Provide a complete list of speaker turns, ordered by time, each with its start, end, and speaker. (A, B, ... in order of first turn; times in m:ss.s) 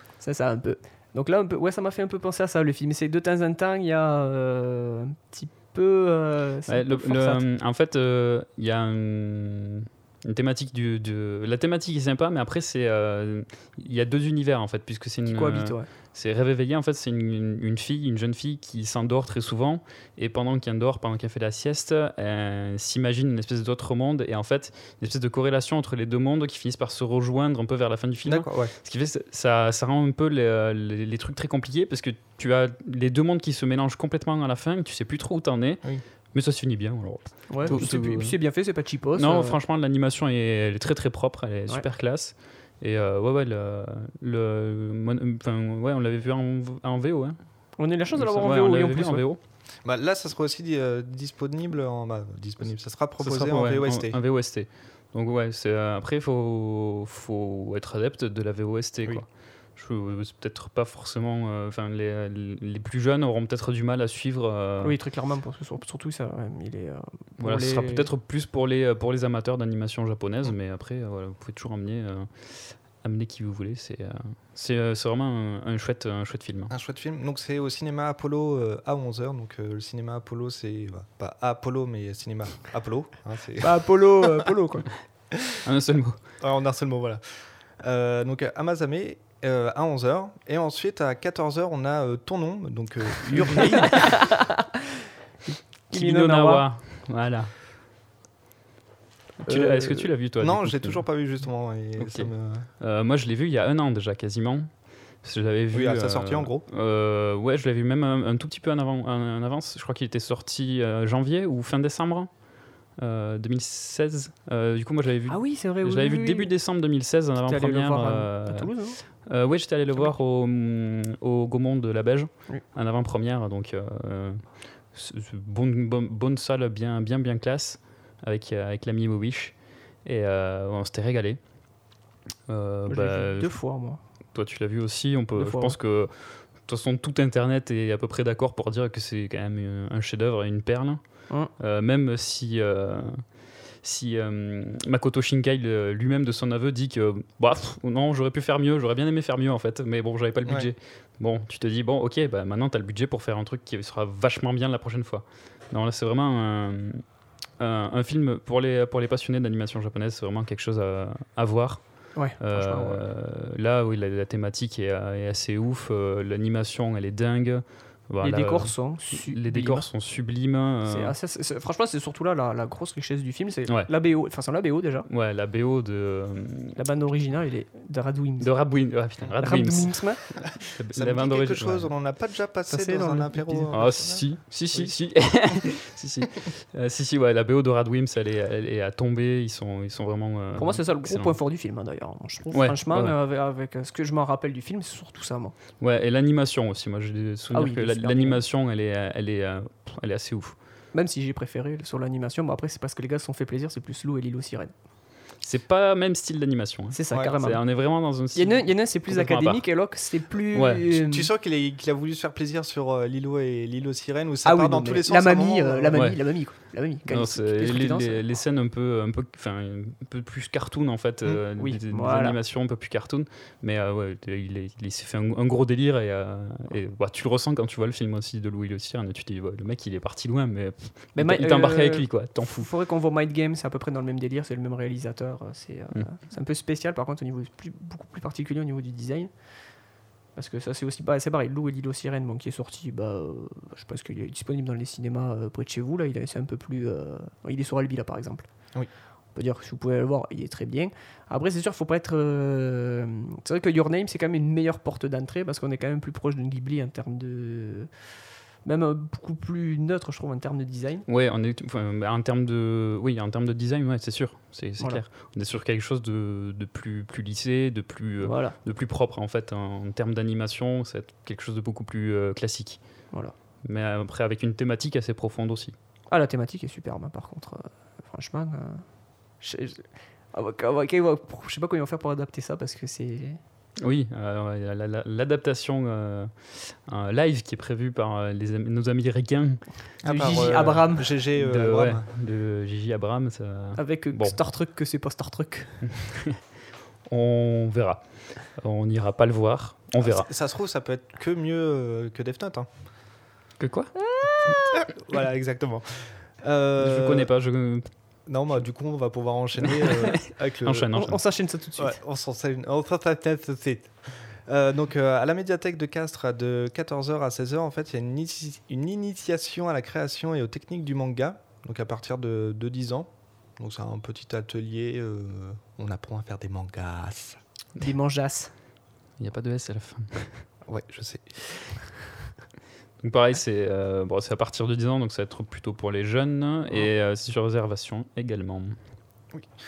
0:00.2-0:07.4 A
0:06.7-0:38.4 B
0:15.3-0:15.9 A
0:28.2-0:28.7 C
0:37.5-0:39.6 A
0:37.6-0:37.9 C
0:39.2-0:49.4 B
0:47.8-0:49.2 A
0:49.8-0:54.2 C
0:53.2-1:05.0 B
1:04.8-1:08.1 A
1:07.4-1:16.7 B
1:16.7-1:23.9 C
1:23.6-1:24.9 A
1:25.6-1:26.2 B
1:26.4-1:34.2 C
1:33.6-1:34.1 B
1:33.9-1:34.5 A
1:35.9-1:36.6 A
1:35.9-1:37.6 B
1:39.4-1:41.1 B
1:39.5-1:40.1 A
1:40.4-1:42.7 C
1:42.0-2:11.4 B
1:45.7-1:46.6 C
1:55.3-1:56.5 A
1:57.4-1:59.0 A
2:12.5-2:13.6 B
2:12.9-2:14.0 A
2:14.3-2:37.0 B
2:15.4-2:15.8 A
2:30.4-2:30.7 C
2:37.6-2:51.2 B
2:42.2-2:43.0 A
2:48.2-2:49.9 A
2:50.9-2:55.1 A
2:55.1-2:56.8 B
2:56.8-2:58.5 A
2:58.4-3:01.9 B
2:59.4-3:00.2 A
3:00.9-3:05.0 C
3:02.7-3:03.8 A
3:03.7-3:11.4 B
3:10.6-3:15.6 A
3:12.5-3:13.2 B
3:15.8-3:20.6 B
3:17.5-3:18.4 A
3:20.9-3:24.7 A
3:25.4-3:29.9 B
3:26.9-3:27.7 A
3:28.3-3:31.3 A
3:30.5-3:31.0 B
3:31.0-3:36.0 C
3:34.4-3:38.3 A
3:37.1-3:52.7 B
3:41.6-3:42.4 A
3:51.2-3:59.3 A
4:00.3-4:08.5 A
4:09.3-4:17.9 A
4:18.6-4:21.1 A
4:21.1-4:33.0 B
4:28.2-4:28.6 A
4:33.6-4:35.8 B
4:36.1-4:38.9 A
4:39.4-4:43.4 A
4:43.8-4:49.7 B
4:50.0-4:52.0 C
4:50.0-4:51.1 A
4:51.4-4:54.4 B
4:53.8-4:55.9 A
4:55.9-4:56.4 B
4:57.1-5:00.3 B
5:00.0-5:02.7 C
5:03.6-5:04.0 B
5:04.0-5:04.8 A
5:04.7-5:07.3 C
5:06.8-5:07.9 B
5:08.3-5:10.9 C
5:09.8-5:11.2 B
5:10.9-5:12.0 A
5:11.8-5:27.4 C
5:27.8-5:28.5 A
5:29.2-5:30.4 B
5:30.7-5:31.9 C
5:33.0-5:38.8 B